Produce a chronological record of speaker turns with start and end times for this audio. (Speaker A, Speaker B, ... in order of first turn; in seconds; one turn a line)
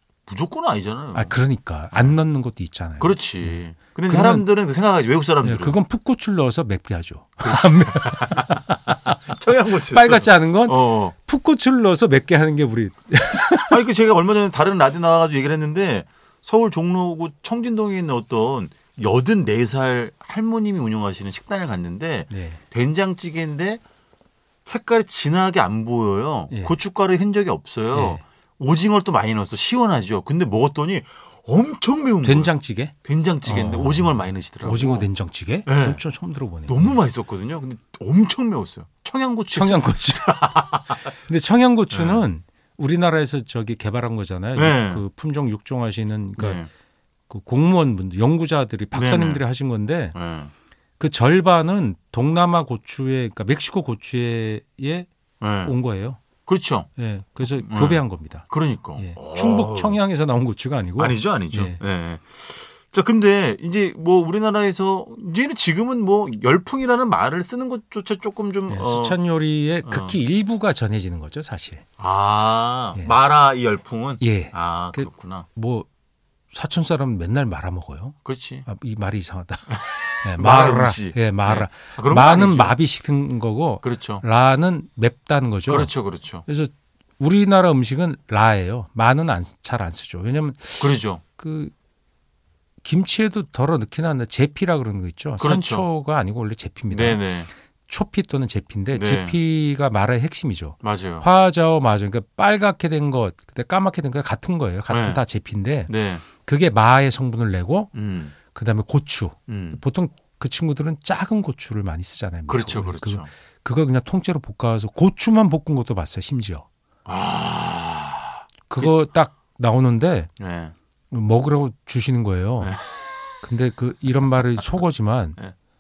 Speaker A: 0.3-1.4
Speaker B: 1.1-4.5
Speaker A: 1.9-2.2
Speaker A: 3.0-5.8
Speaker B: 5.4-9.2
Speaker A: 7.4-8.6
Speaker A: 9.2-11.1
Speaker B: 9.8-13.8
Speaker A: 13.7-23.8
Speaker B: 22.3-22.6
Speaker A: 24.7-35.1
Speaker B: 27.9-28.2
Speaker B: 32.2-37.0
Speaker A: 35.7-36.0
Speaker A: 36.7-41.1
Speaker B: 39.5-40.5
Speaker B: 41.1-46.7
Speaker A: 41.9-42.3
Speaker A: 44.5-45.0
Speaker A: 46.4-46.7
Speaker B: 47.3-50.2
Speaker A: 48.9-49.4
Speaker A: 50.1-50.5
Speaker B: 51.0-55.1
Speaker A: 55.4-55.8
Speaker B: 55.6-56.2
Speaker A: 56.5-56.9
Speaker B: 57.0-61.8
Speaker A: 57.5-60.0
Speaker A: 61.0-69.2
Speaker B: 68.7-71.8
Speaker A: 69.8-70.2
Speaker A: 72.0-75.5
Speaker B: 73.0-73.2
Speaker B: 74.2-75.9
Speaker B: 76.5-85.9
Speaker A: 78.2-78.7
Speaker A: 79.7-82.8
Speaker A: 83.8-84.2
Speaker A: 85.7-86.5
Speaker B: 86.5-91.7
Speaker A: 90.8-91.2
Speaker B: 92.8-97.2
Speaker A: 95.4-95.9
Speaker A: 96.9-97.5
Speaker B: 97.9-107.9
Speaker A: 98.9-99.4
Speaker A: 100.8-101.3
Speaker A: 104.9-105.2
Speaker A: 105.9-106.2
Speaker A: 107.9-108.3
Speaker B: 108.5-116.7
Speaker A: 109.5-109.8
Speaker A: 112.5-113.3
Speaker A: 117.1-119.0
Speaker B: 118.7-120.3
Speaker A: 120.4-120.7
Speaker B: 121.1-122.8
Speaker A: 122.6-123.2
Speaker B: 123.4-125.4